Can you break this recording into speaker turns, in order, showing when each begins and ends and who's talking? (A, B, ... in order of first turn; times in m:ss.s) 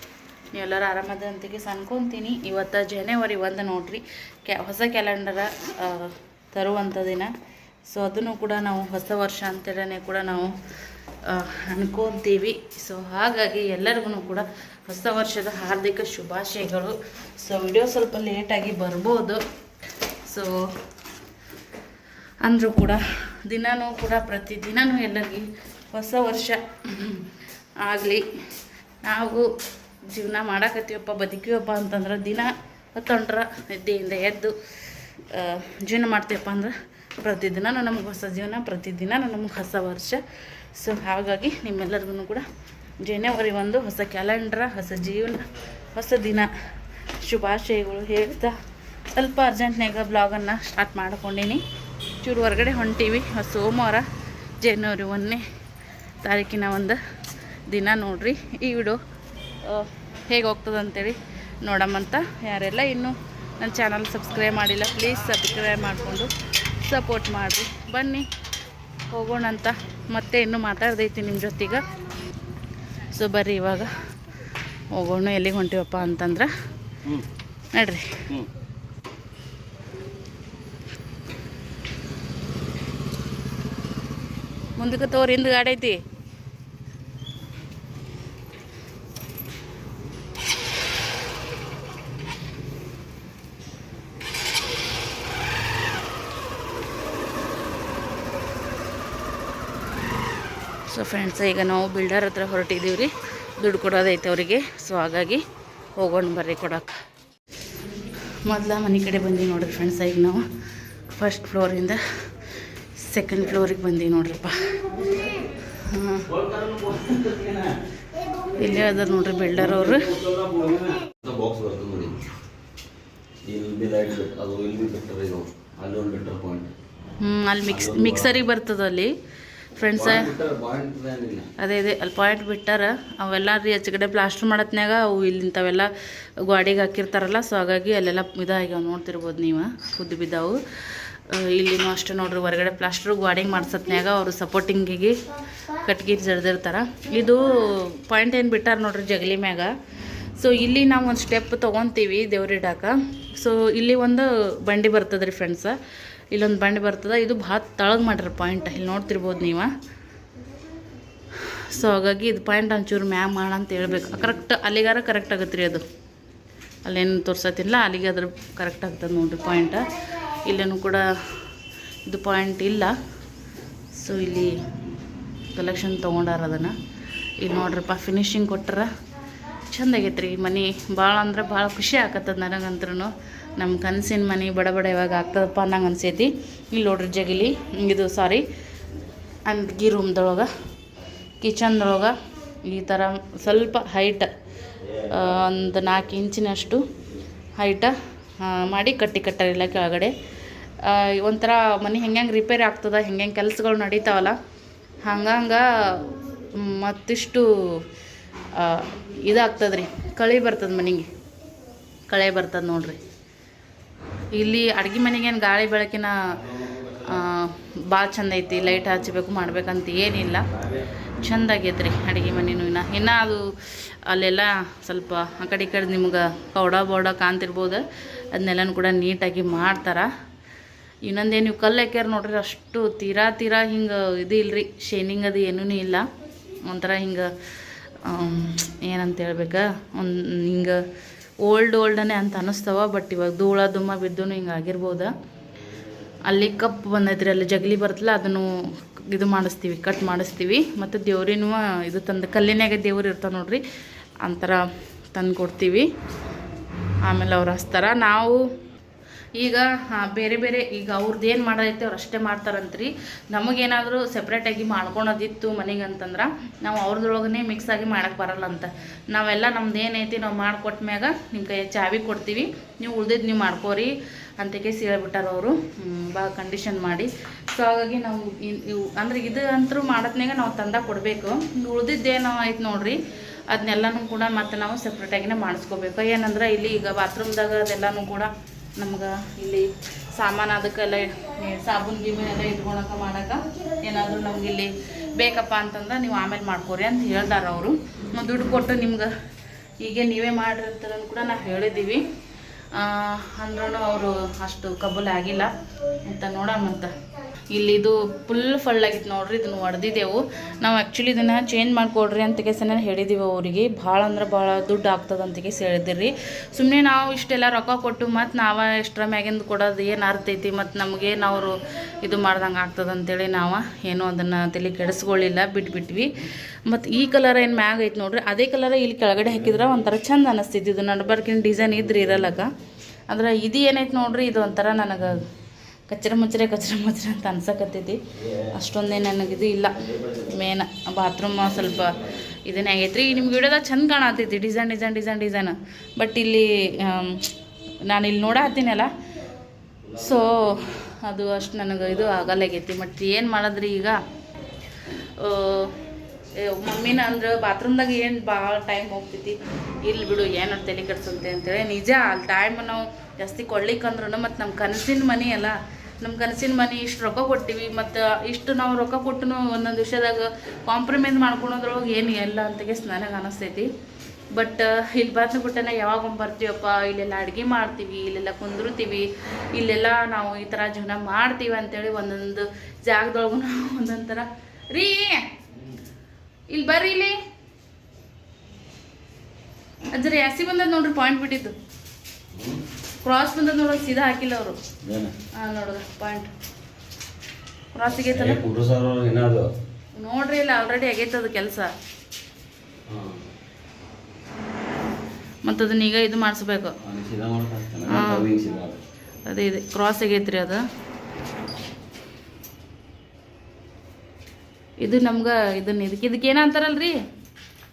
0:00.5-0:07.3 A
0:07.9-0:10.5 A
0:11.2-0:19.4 A
0:20.3-0:20.6 A
0:22.4-0:27.3 A
0:27.8-0:28.2 A
0:29.0-0:29.5 A
0:30.1-0:34.5 A
0:35.3-0:40.2 A
0:40.7-0:42.4 A
0:43.0-0:46.5 A
0:47.2-0:48.6 A
0:49.1-0:51.6 A
0:52.2-0:54.0 A
0:54.6-0:55.4 A
0:56.2-0:57.0 A
0:57.7-0:59.0 A
0:59.6-1:08.3 A
1:09.1-1:11.8 A
1:13.1-1:13.9 A
1:14.9-1:16.5 A
1:17.7-1:18.2 A
1:24.8-1:26.0 A
1:40.9-1:45.4 A
1:46.0-1:47.0 A
1:48.4-1:50.4 A
1:51.1-1:52.0 A
1:53.0-1:54.8 A
1:55.8-1:56.3 A
1:56.3-1:57.8 B
1:58.6-2:00.1 A
1:59.5-2:02.1 B
2:03.4-2:06.7 B
2:07.2-2:09.1 A
2:07.7-2:08.4 B
2:09.8-2:10.3 A
2:10.0-2:11.5 B
2:11.6-2:15.9 A
2:16.4-2:20.6 A
2:21.3-2:25.2 A
2:25.7-2:29.7 A
2:30.4-2:35.8 A
2:36.3-2:39.7 A
2:41.7-2:45.8 A
2:46.8-2:51.1 A
2:52.1-2:52.9 A
2:53.9-2:54.6 A
2:55.5-2:56.8 A
2:57.4-2:58.9 A
2:59.7-3:08.4 A
3:09.4-3:10.5 A
3:11.4-3:14.3 A
3:15.1-3:16.8 A
3:17.6-3:20.1 A
3:20.8-3:24.4 A
3:25.0-3:27.8 A
3:28.5-3:31.1 A
3:32.1-3:33.0 A
3:34.3-3:36.2 A
3:36.4-3:37.2 B
3:37.0-3:40.5 A
3:40.5-3:40.9 B
3:41.2-3:50.1 A
3:51.0-3:56.1 A
3:56.6-3:57.3 A
3:58.0-4:00.8 A
4:01.4-4:05.1 A
4:06.2-4:08.5 A
4:09.1-4:13.6 A
4:14.2-4:14.6 A
4:15.1-4:15.8 A
4:17.0-4:18.5 A
4:19.4-4:43.0 A
4:43.5-4:59.1 A
4:59.8-5:02.0 A
5:02.7-5:06.9 A
5:07.5-5:26.1 A
5:26.6-5:32.5 A
5:33.1-5:35.2 A
5:35.9-5:38.0 A
5:38.2-5:38.5 B
5:38.5-5:47.3 A
5:39.8-5:40.4 B
5:41.5-5:42.1 B
5:47.8-5:48.9 A
5:49.8-5:50.5 B
5:49.9-5:54.0 A
5:55.2-5:55.8 A
5:56.4-6:13.7 A
6:14.3-6:25.3 A
6:26.5-6:27.2 A
6:29.9-6:31.5 A
6:32.3-6:32.6 B
6:33.0-6:34.6 A
6:34.8-6:35.1 B
6:35.4-6:36.3 A
6:37.7-6:38.4 A
6:37.9-6:39.5 B
6:40.0-6:41.7 A
6:42.9-6:43.2 B
6:45.4-6:46.8 A
6:46.8-6:48.8 B
6:47.9-6:48.3 A
6:49.3-6:50.6 A
6:54.8-6:57.0 A